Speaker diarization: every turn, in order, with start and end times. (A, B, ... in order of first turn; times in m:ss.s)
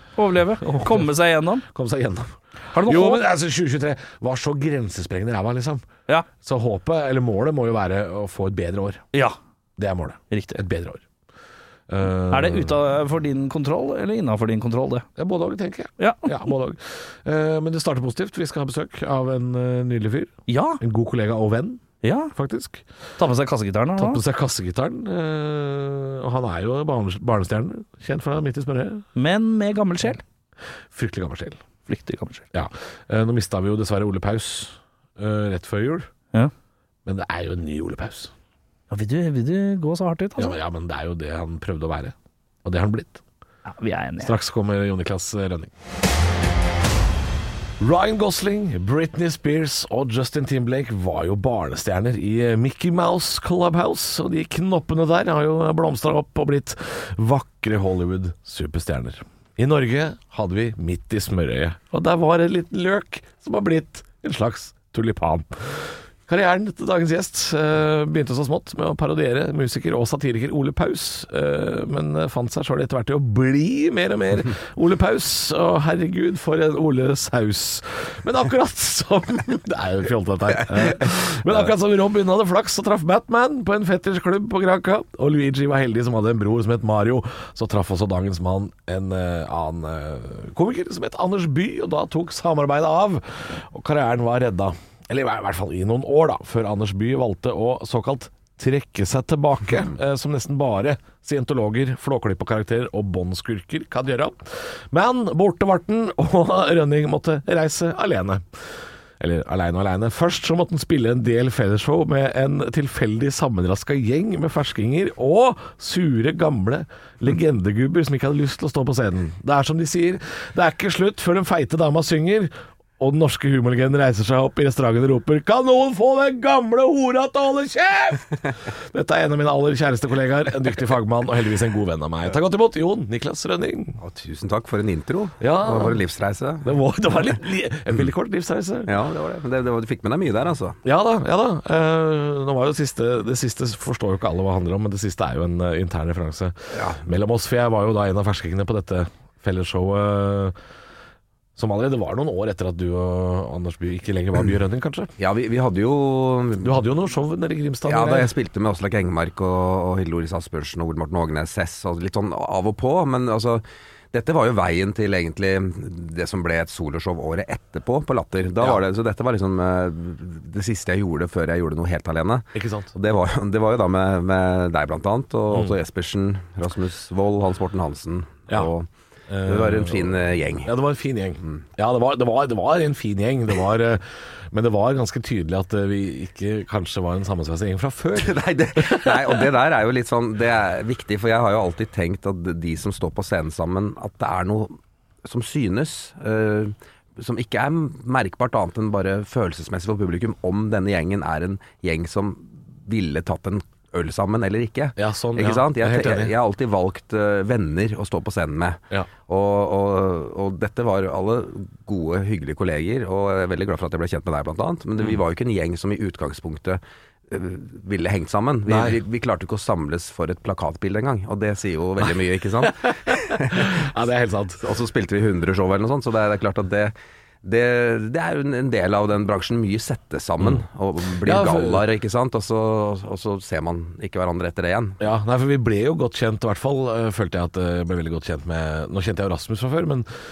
0:00.2-0:01.6 A
0:00.6-0:01.0 B
0:01.6-0:05.9 B
0:02.7-0:03.2 A
0:06.4-0:09.0 B
0:09.8-0:11.0 B
0:10.3-0:10.6 A
0:11.9-0:12.8 B
0:12.3-0:15.0 A
0:15.2-0:22.8 B
0:16.0-0:16.3 A
0:20.5-0:20.8 A
0:22.0-0:22.3 A
0:23.2-0:24.2 A
0:24.0-0:29.0 B
0:29.2-0:30.2 A
0:30.9-0:31.6 B
0:31.9-0:32.4 A
0:32.5-0:36.1 B
0:37.0-0:38.3 B
0:38.9-0:40.6 A
0:40.4-0:43.2 B
0:43.6-0:44.3 A
0:44.2-0:45.7 B
0:47.8-1:48.4 B
1:49.2-2:14.0 B
2:14.0-2:16.7 C
2:15.4-2:16.0 B
2:16.6-2:18.9 B
2:18.8-2:20.8 C
2:20.8-2:30.5 B
2:26.7-2:27.0 C
2:31.6-2:35.1 B
2:35.2-2:36.8 C
2:36.6-2:38.3 B
2:37.8-2:58.9 C
2:52.5-2:52.9 B
2:55.5-2:55.8 B
2:59.3-3:09.4 B
2:59.4-3:00.7 C
3:08.2-3:43.8 C
3:25.0-3:26.3 B
3:38.7-3:39.0 B
3:42.6-3:44.7 B
3:44.6-3:46.9 C
3:47.4-3:55.0 C
3:51.2-3:51.8 B
3:55.0-4:00.1 B